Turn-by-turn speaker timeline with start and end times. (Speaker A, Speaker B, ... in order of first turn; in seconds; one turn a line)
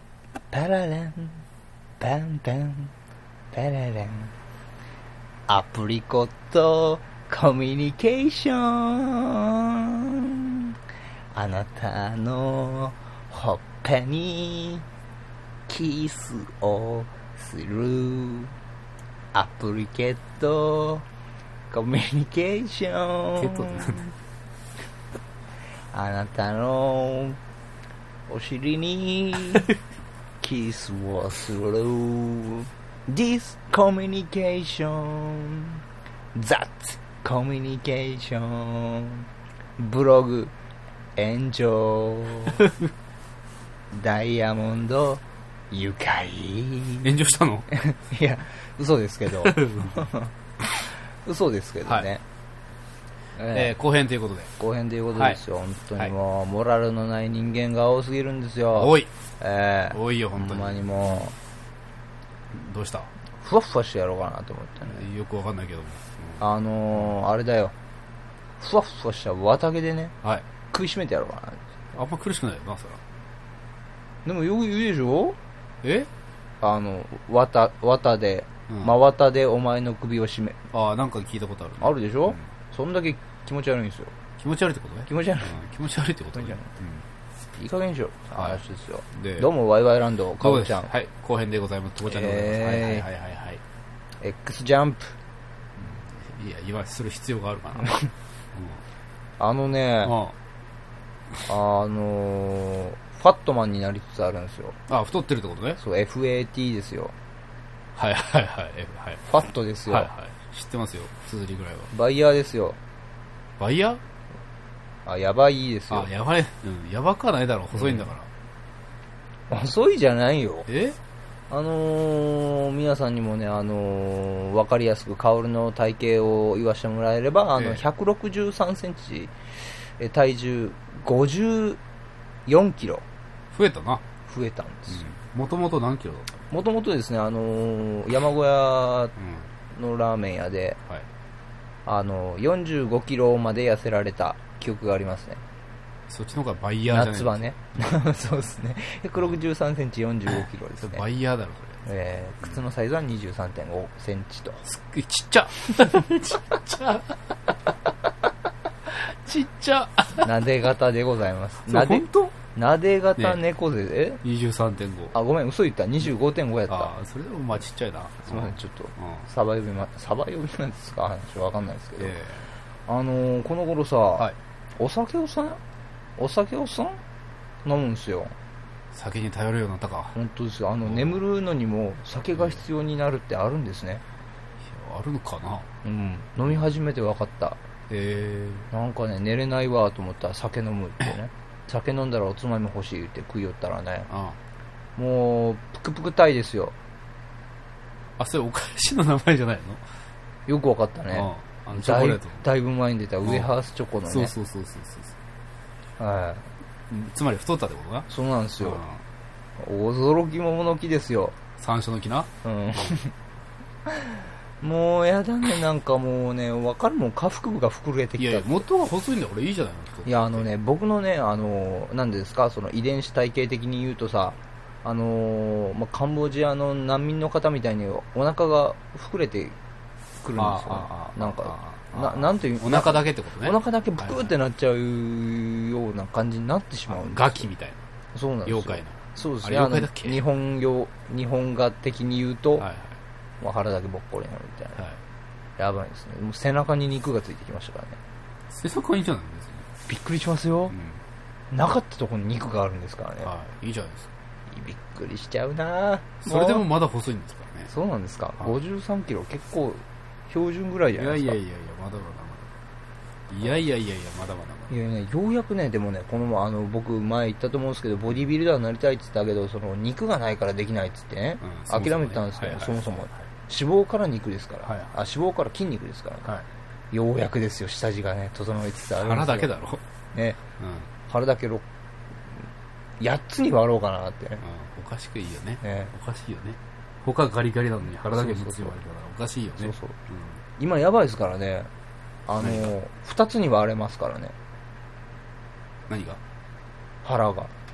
Speaker A: 0.5-1.4
Speaker A: 2.0-2.9
Speaker A: 3.5-4.3
Speaker A: 5.5-10.7
Speaker A: 11.3-14.8
Speaker A: 15.7-18.5
Speaker A: 19.3-21.1
Speaker A: 21.7-24.1
Speaker B: 23.4-24.1
Speaker A: 25.9-27.4
Speaker A: 28.3-29.7
Speaker A: 30.4-35.8
Speaker A: 36.3-40.5
Speaker A: 41.2-42.6
Speaker A: 43.9-47.1
Speaker B: 47.0-47.7
Speaker A: 47.7-50.3
Speaker B: 49.4-50.1
Speaker A: 50.9-52.2
Speaker A: 53.4-53.7
Speaker B: 53.5-54.5
Speaker A: 54.6-61.3
Speaker B: 55.1-55.4
Speaker B: 58.8-59.1
Speaker B: 59.9-61.3
Speaker B: 62.5-63.1
Speaker A: 63.4-65.0
Speaker B: 64.8-66.4
Speaker A: 66.4-67.7
Speaker A: 68.6-70.2
Speaker A: 70.7-71.7
Speaker B: 71.9-73.0
Speaker A: 74.2-75.4
Speaker B: 75.8-76.1
Speaker A: 76.6-80.6
Speaker B: 80.7-82.4
Speaker A: 81.8-84.1
Speaker B: 84.4-87.0
Speaker A: 85.1-85.5
Speaker A: 86.3-86.7
Speaker A: 87.6-90.9
Speaker B: 88.3-88.6
Speaker B: 89.1-89.5
Speaker B: 90.4-93.6
Speaker A: 92.0-93.1
Speaker A: 94.2-95.2
Speaker B: 95.8-98.8
Speaker A: 99.4-100.2
Speaker B: 100.0-100.3
Speaker A: 101.5-104.8
Speaker B: 104.9-105.8
Speaker A: 105.8-107.1
Speaker B: 107.9-109.3
Speaker A: 109.2-110.1
Speaker B: 109.9-111.9
Speaker A: 111.9-112.8
Speaker B: 113.6-114.0
Speaker A: 115.0-116.1
Speaker B: 115.9-118.3
Speaker A: 117.7-118.1
Speaker A: 119.5-120.7
Speaker B: 120.7-121.0
Speaker A: 121.5-131.8
Speaker B: 127.5-127.8
Speaker A: 132.5-133.1
Speaker B: 133.5-134.1
Speaker A: 134.3-135.0
Speaker B: 134.9-136.3
Speaker A: 136.5-139.2
Speaker B: 139.2-139.5
Speaker A: 139.7-140.8
Speaker A: 141.9-145.4
Speaker B: 146.1-147.5
Speaker A: 146.9-151.0
Speaker B: 150.8-151.8
Speaker A: 151.8-154.6
Speaker B: 154.7-157.5
Speaker B: 158.9-160.3
Speaker A: 160.2-164.2
Speaker B: 161.6-162.4
Speaker B: 164.2-165.2
Speaker A: 165.1-166.9
Speaker B: 166.7-169.3
Speaker A: 168.2-172.2
Speaker B: 172.0-172.5
Speaker A: 172.9-175.6
Speaker A: 176.2-177.0
Speaker A: 177.7-178.3
Speaker B: 178.9-180.2
Speaker A: 180.2-184.0
Speaker B: 180.8-181.2
Speaker B: 184.6-185.7
Speaker A: 185.8-187.6
Speaker B: 187.9-188.7
Speaker A: 188.7-194.1
Speaker B: 194.1-194.4
Speaker A: 195.0-196.8
Speaker B: 198.2-199.8
Speaker A: 200.5-204.3
Speaker B: 201.1-202.4
Speaker B: 203.2-203.5
Speaker B: 204.1-205.1
Speaker A: 206.0-206.5
Speaker B: 206.9-208.1
Speaker A: 208.1-208.8
Speaker B: 208.6-209.0
Speaker A: 209.6-211.4
Speaker B: 211.6-212.3
Speaker A: 212.4-213.1
Speaker A: 213.9-218.6
Speaker B: 218.2-220.5
Speaker A: 220.1-229.6
Speaker A: 230.2-237.5
Speaker B: 230.4-234.3
Speaker B: 236.9-237.8
Speaker A: 238.1-242.7
Speaker B: 238.5-240.2
Speaker B: 242.6-243.0
Speaker A: 243.4-244.8
Speaker A: 245.6-248.0
Speaker B: 248.5-249.7
Speaker A: 249.9-250.7
Speaker B: 250.7-251.0
Speaker A: 251.5-253.3
Speaker B: 253.2-254.1
Speaker A: 254.5-256.7
Speaker B: 256.2-257.7
Speaker A: 257.7-261.4
Speaker B: 260.9-262.5
Speaker B: 263.3-264.7
Speaker A: 264.7-276.3
Speaker B: 271.4-273.2
Speaker B: 274.6-274.9
Speaker A: 276.9-279.5
Speaker B: 279.0-279.8
Speaker A: 280.1-280.4
Speaker B: 280.6-280.9
Speaker A: 281.1-281.6
Speaker A: 283.0-284.4
Speaker B: 284.4-290.4
Speaker A: 285.6-285.9
Speaker A: 288.1-288.8
Speaker A: 289.6-290.0
Speaker A: 290.6-291.7
Speaker A: 292.2-294.3
Speaker B: 292.4-292.7
Speaker B: 295.9-296.2
Speaker A: 297.0-297.5